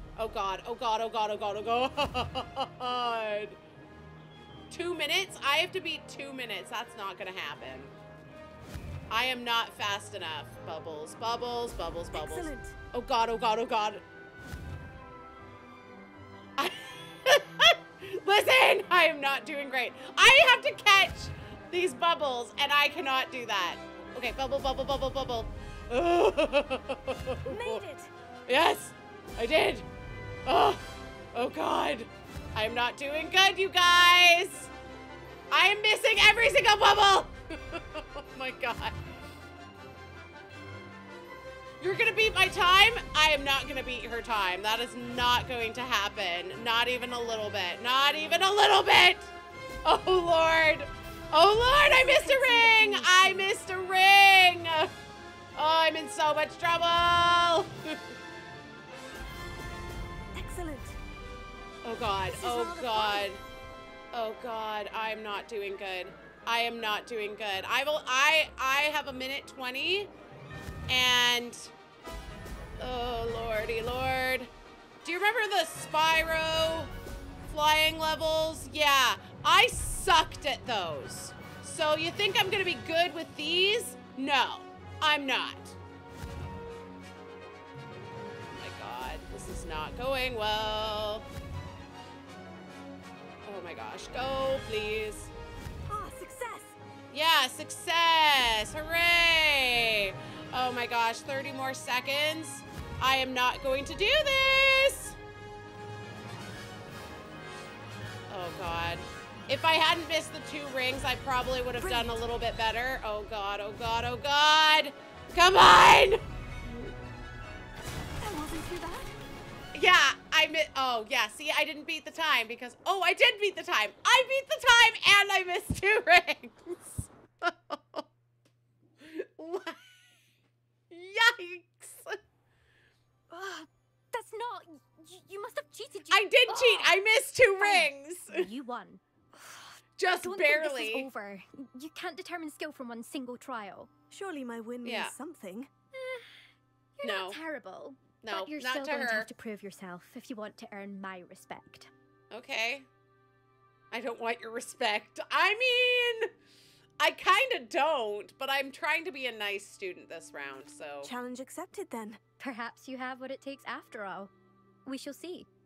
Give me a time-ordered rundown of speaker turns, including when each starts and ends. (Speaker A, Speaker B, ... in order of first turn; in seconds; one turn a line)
Speaker A: 0.2-3.6
Speaker A: 4.7-7.9
Speaker A: 9.1-14.0
Speaker B: 12.1-12.8
Speaker A: 16.6-27.8
Speaker B: 27.5-28.1
Speaker A: 28.5-29.9
Speaker A: 30.4-34.7
Speaker A: 35.5-39.0
Speaker A: 41.8-49.3
Speaker A: 49.8-54.9
Speaker B: 51.8-53.5
Speaker A: 55.5-58.1
Speaker B: 60.3-61.0
Speaker A: 61.8-63.4
Speaker B: 62.2-63.4
Speaker A: 64.1-70.1
Speaker A: 70.9-71.7
Speaker A: 72.8-74.5
Speaker A: 75.0-76.9
Speaker A: 77.4-85.8
Speaker A: 88.5-91.2
Speaker A: 93.4-95.3
Speaker B: 95.9-96.8
Speaker A: 97.1-105.2
Speaker A: 108.3-116.2
Speaker B: 111.8-112.2
Speaker B: 118.2-119.1
Speaker A: 119.7-128.0
Speaker A: 129.0-129.8
Speaker A: 130.9-132.2
Speaker C: 133.3-137.0
Speaker A: 136.1-138.5
Speaker C: 137.6-143.9
Speaker A: 140.0-141.1
Speaker B: 144.1-145.7
Speaker A: 144.8-145.1
Speaker C: 146.0-146.2
Speaker C: 147.0-151.9
Speaker A: 147.0-147.4
Speaker A: 148.2-149.3
Speaker A: 152.3-152.9
Speaker A: 153.9-156.3
Speaker A: 157.0-161.1
Speaker B: 161.0-162.2
Speaker C: 162.4-164.3
Speaker C: 164.8-165.5